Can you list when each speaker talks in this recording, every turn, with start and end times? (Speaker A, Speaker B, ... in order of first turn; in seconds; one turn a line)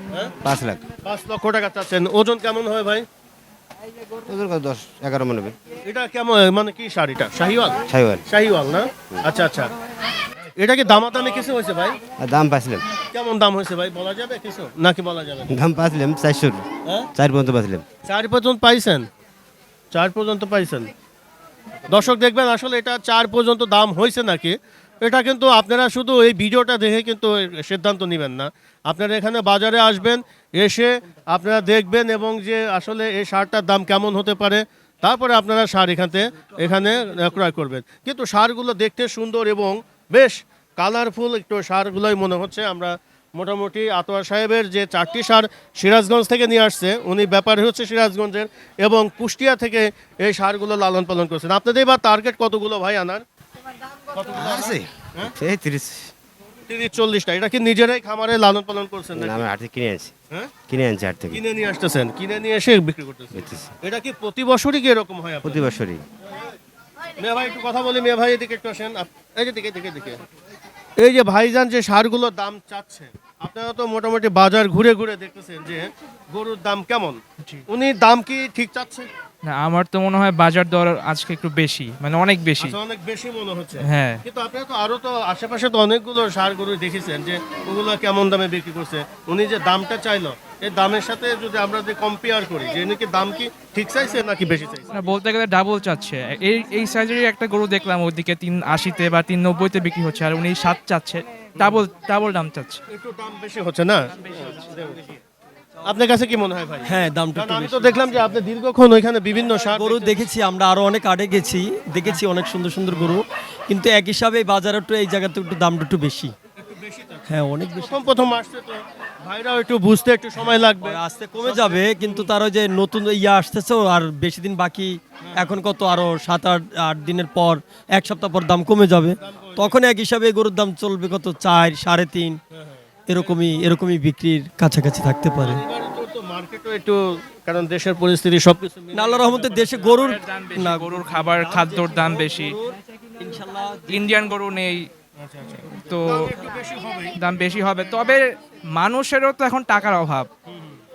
Speaker A: 0.4-0.8
Speaker B: 1.0-3.0
Speaker A: 4.2-5.5
Speaker B: 5.8-9.7
Speaker A: 7.8-8.2
Speaker B: 10.6-12.0
Speaker A: 12.2-12.8
Speaker B: 13.1-15.6
Speaker A: 15.5-17.8
Speaker B: 18.1-19.1
Speaker B: 19.9-20.9
Speaker B: 21.9-53.2
Speaker B: 54.1-55.3
Speaker A: 54.3-56.1
Speaker B: 56.7-59.5
Speaker A: 59.1-60.1
Speaker A: 60.7-61.4
Speaker B: 61.3-65.6
Speaker A: 63.3-63.7
Speaker A: 65.4-66.0
Speaker B: 67.2-70.2
Speaker B: 71.0-79.1
Speaker C: 79.4-82.8
Speaker B: 82.6-95.1
Speaker C: 83.8-84.2
Speaker C: 94.9-102.8
Speaker B: 102.9-105.2
Speaker C: 104.2-104.7
Speaker B: 105.8-110.2
Speaker D: 106.8-108.3
Speaker D: 109.7-116.3
Speaker B: 116.6-122.3
Speaker D: 117.3-118.1
Speaker D: 120.8-132.4
Speaker B: 129.2-129.7
Speaker B: 132.5-132.8
Speaker D: 133.1-135.6
Speaker B: 135.4-140.2
Speaker D: 138.9-144.2
Speaker C: 140.1-142.6
Speaker C: 143.9-144.9
Speaker B: 145.2-147.1
Speaker C: 145.7-146.3
Speaker C: 147.2-150.3